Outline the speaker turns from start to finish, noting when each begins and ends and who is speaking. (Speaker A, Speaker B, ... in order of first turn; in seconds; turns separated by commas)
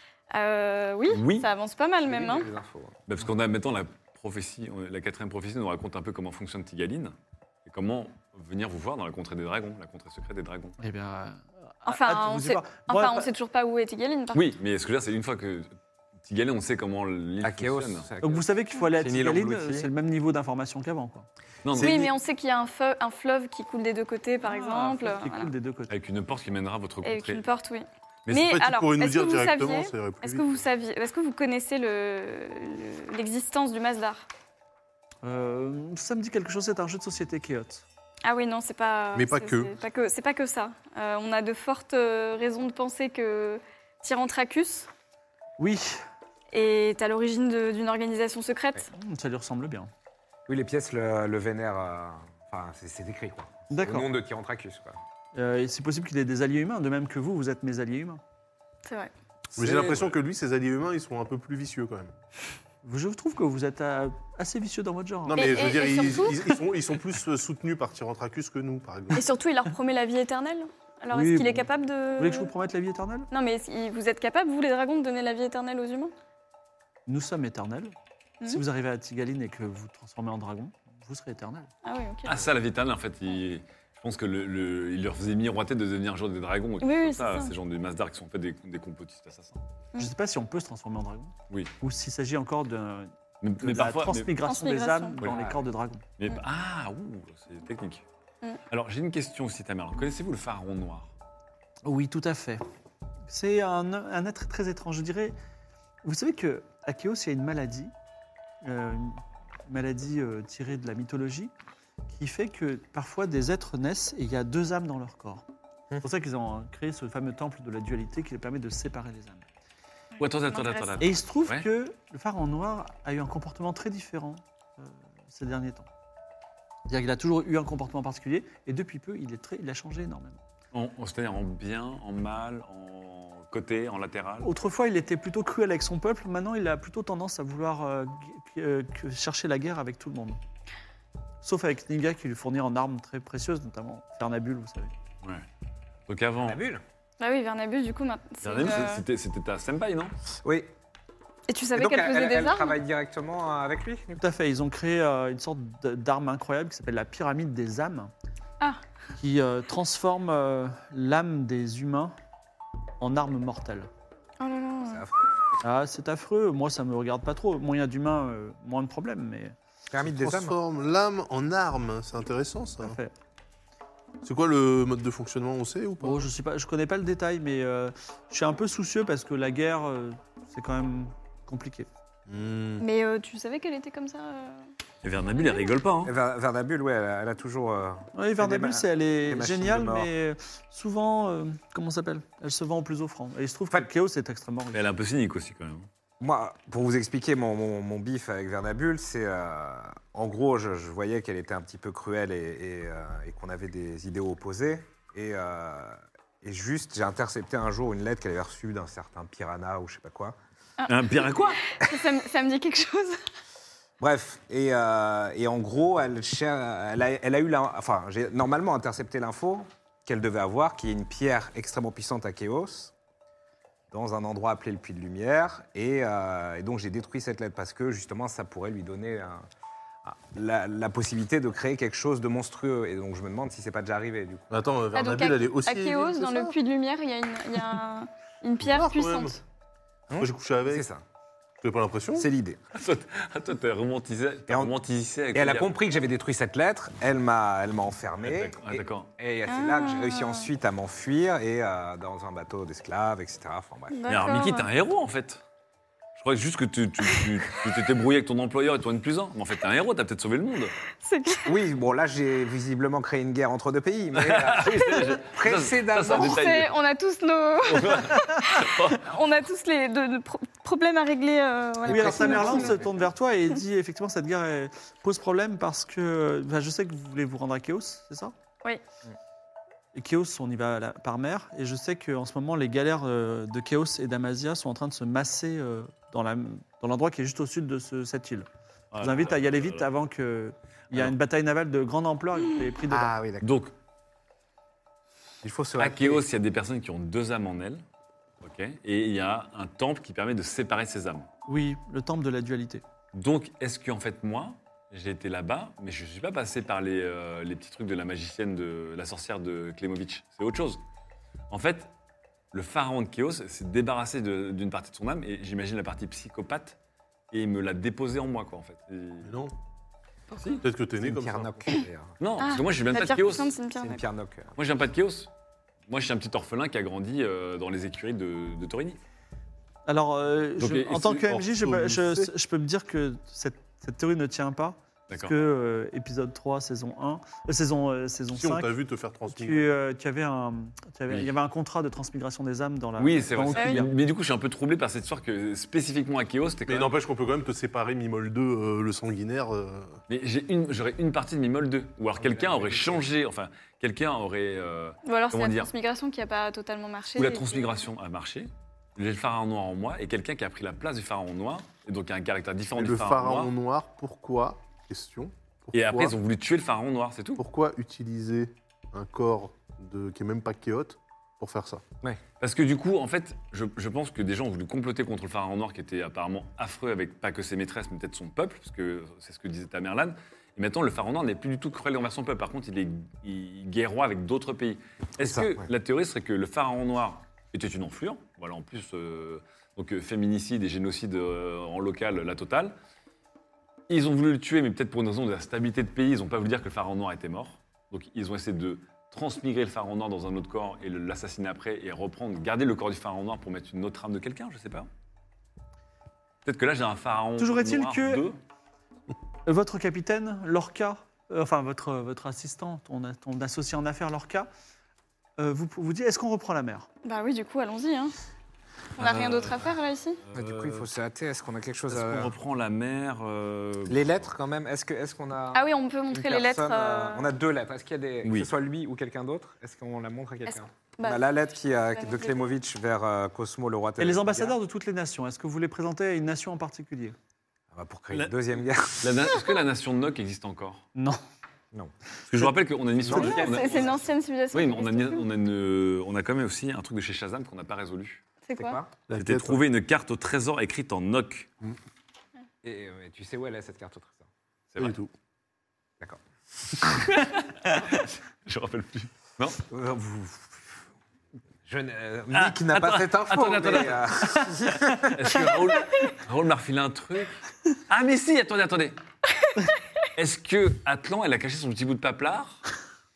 Speaker A: 0.3-2.5, Speaker B: 1.1-1.5, Speaker C: 2.0-3.0, Speaker B: 3.1-10.8, Speaker D: 10.8-13.3, Speaker A: 11.8-14.4, Speaker B: 14.3-18.1, Speaker C: 17.4-19.9, Speaker D: 18.2-21.3, Speaker B: 21.6-22.1, Speaker A: 21.8-25.5, Speaker D: 24.4-25.9, Speaker B: 25.9-27.4, Speaker A: 27.0-34.2, Speaker E: 28.3-30.5, Speaker D: 35.2-37.8, Speaker A: 38.2-44.9, Speaker E: 39.1-39.7, Speaker D: 45.6-46.0, Speaker A: 46.5-48.9, Speaker D: 48.9-49.9, Speaker C: 50.5-55.0, Speaker D: 53.7-54.1, Speaker D: 55.3-58.2, Speaker A: 58.9-59.1, Speaker E: 59.5-62.1, Speaker B: 59.6-60.1, Speaker D: 62.8-65.8, Speaker E: 65.3-69.2, Speaker A: 65.3-66.4, Speaker A: 69.1-72.5, Speaker D: 71.1-71.7, Speaker D: 72.2-73.3, Speaker A: 73.3-76.1, Speaker D: 77.1-77.9, Speaker D: 78.5-81.7, Speaker A: 81.8-82.5, Speaker B: 82.2-89.6, Speaker A: 86.8-87.5, Speaker D: 90.0-96.0, Speaker B: 93.4-94.3, Speaker A: 94.4-95.2, Speaker C: 95.2-95.6, Speaker B: 96.2-98.0, Speaker B: 98.7-101.1, Speaker D: 101.8-102.6, Speaker D: 103.3-105.3, Speaker D: 106.0-107.9, Speaker D: 108.6-111.5, Speaker D: 112.1-115.4, Speaker D: 116.0-119.4, Speaker A: 120.2-121.0, Speaker B: 120.2-121.7, Speaker D: 121.0-125.9, Speaker D: 126.9-130.4, Speaker B: 130.7-134.5, Speaker D: 134.4-140.4, Speaker D: 141.4-144.9, Speaker B: 146.1-146.6, Speaker C: 146.4-146.8, Speaker A: 147.2-149.0, Speaker B: 148.4-150.1, Speaker C: 150.4-150.7, Speaker A: 151.5-152.8, Speaker C: 151.7-154.2, Speaker D: 154.2-158.1, Speaker D: 159.2-162.1, Speaker D: 163.0-163.9, Speaker A: 164.4-165.1, Speaker C: 164.8-165.1, Speaker D: 165.6-169.5, Speaker C: 169.9-170.6, Speaker E: 170.1-172.9, Speaker D: 172.8-173.1, Speaker E: 174.2-176.2, Speaker D: 176.0-181.9, Speaker E: 182.3-182.8, Speaker A: 182.8-184.7, Speaker B: 185.0-186.1, Speaker C: 186.0-190.1, Speaker D: 188.1-194.8, Speaker B: 194.7-195.9, Speaker C: 196.2-210.3, Speaker B: 210.9-211.6, Speaker A: 211.6-213.2, Speaker C: 214.0-222.9, Speaker C: 223.9-229.4, Speaker C: 230.0-234.5, Speaker E: 234.5-236.5, Speaker A: 234.9-239.4, Speaker E: 238.6-239.3, Speaker C: 240.1-241.0, Speaker E: 240.1-240.8, Speaker E: 241.6-242.3, Speaker C: 242.1-242.6, Speaker B: 242.7-245.8, Speaker C: 244.5-244.7, Speaker C: 245.3-254.2, Speaker B: 248.2-249.1, Speaker A: 249.5-250.5, Speaker A: 253.9-254.7, Speaker B: 254.1-255.4, Speaker B: 256.1-260.7, Speaker A: 261.0-261.5, Speaker C: 261.4-266.4, Speaker B: 264.1-266.7, Speaker A: 266.1-272.8, Speaker B: 267.7-269.0, Speaker C: 271.8-273.1, Speaker D: 271.9-278.3, Speaker D: 279.9-288.5, Speaker B: 288.9-289.9, Speaker D: 289.0-293.1, Speaker C: 292.9-293.5, Speaker B: 293.4-293.7, Speaker C: 295.4-296.2, Speaker B: 295.8-297.8, Speaker B: 298.4-301.3, Speaker D: 301.5-302.8, Speaker B: 303.1-310.8, Speaker B: 311.5-311.9, Speaker B: 312.5-316.8, Speaker B: 317.3-319.3, Speaker E: 319.2-319.5, Speaker B: 320.3-320.6, Speaker E: 320.6-321.6, Speaker C: 321.0-322.2, Speaker B: 322.2-323.5, Speaker A: 322.4-324.0, Speaker C: 323.7-324.6, Speaker B: 324.6-325.3, Speaker B: 325.9-329.0, Speaker D: 329.9-338.7, Speaker B: 330.6-331.1, Speaker E: 331.1-332.3, Speaker B: 335.1-335.3, Speaker E: 338.3-339.7, Speaker D: 339.3-343.9, Speaker B: 343.0-346.9, Speaker A: 343.5-343.8, Speaker E: 346.7-350.0, Speaker B: 350.1-355.7, Speaker C: 352.2-353.0, Speaker A: 355.0-357.9, Speaker B: 357.1-363.5, Speaker E: 362.8-366.1, Speaker B: 365.7-367.4, Speaker E: 367.4-371.8, Speaker B: 372.4-392.7, Speaker C: 385.2-385.7, Speaker B: 393.9-404.9, Speaker B: 406.4-408.4, Speaker D: 407.4-408.2, Speaker D: 409.4-414.5, Speaker D: 415.4-416.9, Speaker A: 417.0-418.1, Speaker B: 419.0-419.6, Speaker A: 419.0-420.2, Speaker B: 420.3-420.9, Speaker C: 420.3-422.3, Speaker B: 421.9-424.3, Speaker C: 423.9-434.6, Speaker A: 425.5-427.3, Speaker B: 428.2-428.5, Speaker A: 430.4-431.2, Speaker A: 431.9-432.4, Speaker D: 434.0-437.1, Speaker C: 437.7-439.4, Speaker B: 438.1-440.8, Speaker B: 442.3-443.9, Speaker C: 443.1-444.0, Speaker A: 443.1-445.2, Speaker B: 444.5-448.2, Speaker A: 448.4-448.8, Speaker C: 448.6-448.9, Speaker E: 449.1-449.6, Speaker B: 449.1-451.5, Speaker C: 452.6-454.2, Speaker B: 454.7-455.0, Speaker E: 454.8-455.1, Speaker B: 457.2-459.6, Speaker C: 459.7-460.8, Speaker C: 461.6-465.5, Speaker B: 462.3-464.1, Speaker B: 465.1-467.3, Speaker B: 467.9-468.9, Speaker B: 470.2-472.6